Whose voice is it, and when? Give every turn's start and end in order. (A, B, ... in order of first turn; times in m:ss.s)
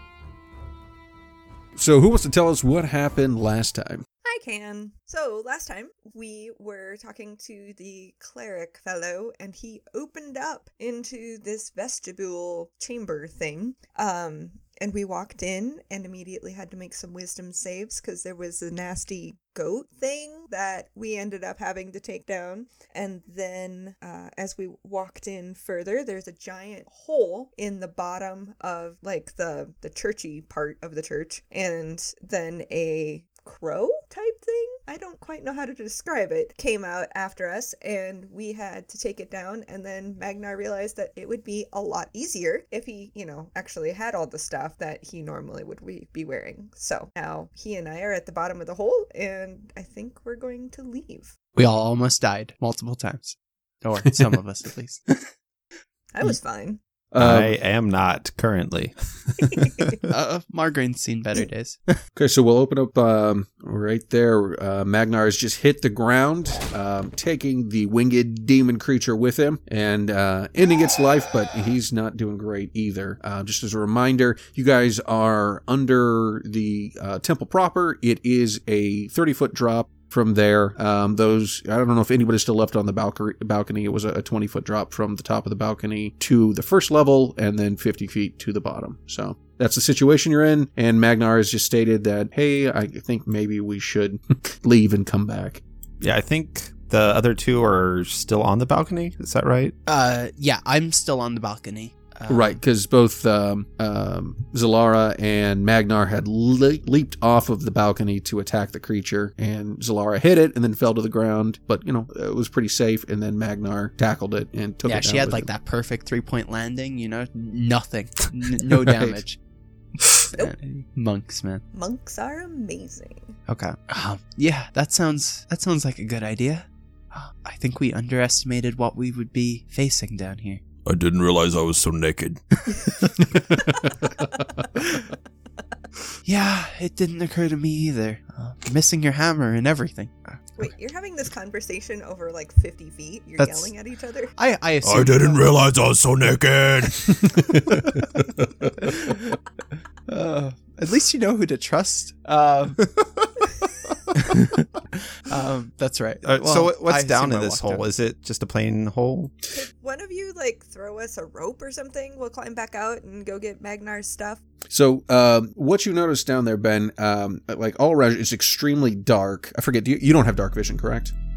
0:01.8-0:04.0 A
0:04.2-0:51.3 B
0:51.6-0:55.0 C
0:56.1-0:56.8 B
0:57.1-0:57.5 A
0:57.2-0:59.9 D
1:00.1-1:02.0 C
1:02.2-1:35.6 A
1:36.0-1:39.8 D
1:39.9-1:42.6 C
1:42.3-1:55.5 A
1:54.8-1:59.4 C
1:58.7-1:59.2 A
2:00.2-2:01.6 C
2:01.7-2:03.4 B
2:03.5-2:10.6 C
2:10.8-2:13.1 E
2:16.2-2:20.4 C
2:20.6-2:24.3 B
2:23.4-2:23.7 C
2:24.4-2:25.5 C
2:24.8-2:27.5 E
2:30.1-2:32.9 C
2:34.1-2:34.6 C
2:35.2-2:37.8 C
2:36.2-2:39.3 D
2:39.5-2:44.4 B
2:44.7-2:51.2 A